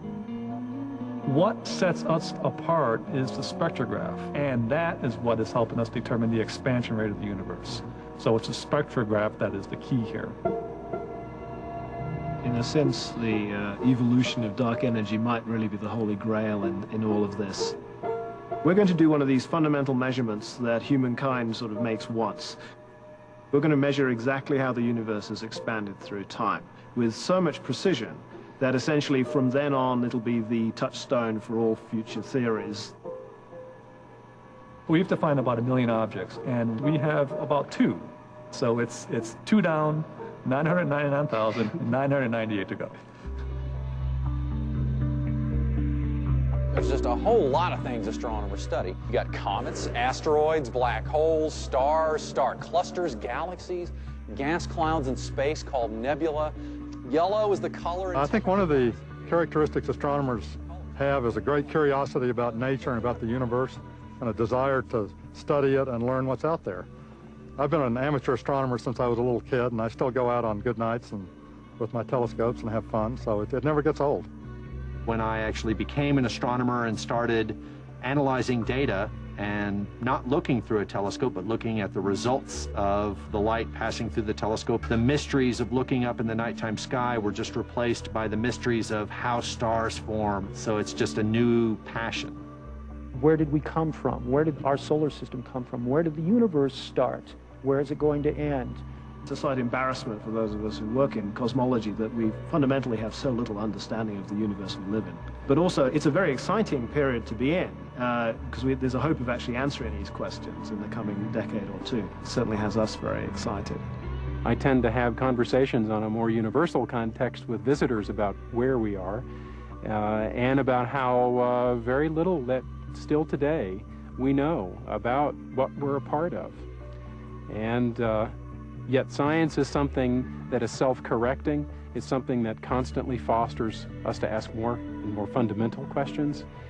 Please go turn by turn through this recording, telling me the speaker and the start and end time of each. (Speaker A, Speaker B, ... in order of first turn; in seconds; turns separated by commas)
Speaker A: 1.2-10.4, Speaker B: 12.4-17.8, Speaker B: 18.6-22.6, Speaker B: 23.5-32.9, Speaker A: 34.9-42.9, Speaker C: 46.7-58.9, Speaker D: 58.1-66.9, Speaker D: 67.6-74.3, Speaker E: 75.0-92.4, Speaker F: 93.1-98.8, Speaker B: 99.2-113.9, Speaker G: 114.4-119.2, Speaker G: 119.8-126.6, Speaker G: 127.5-128.3, Speaker G: 128.9-136.4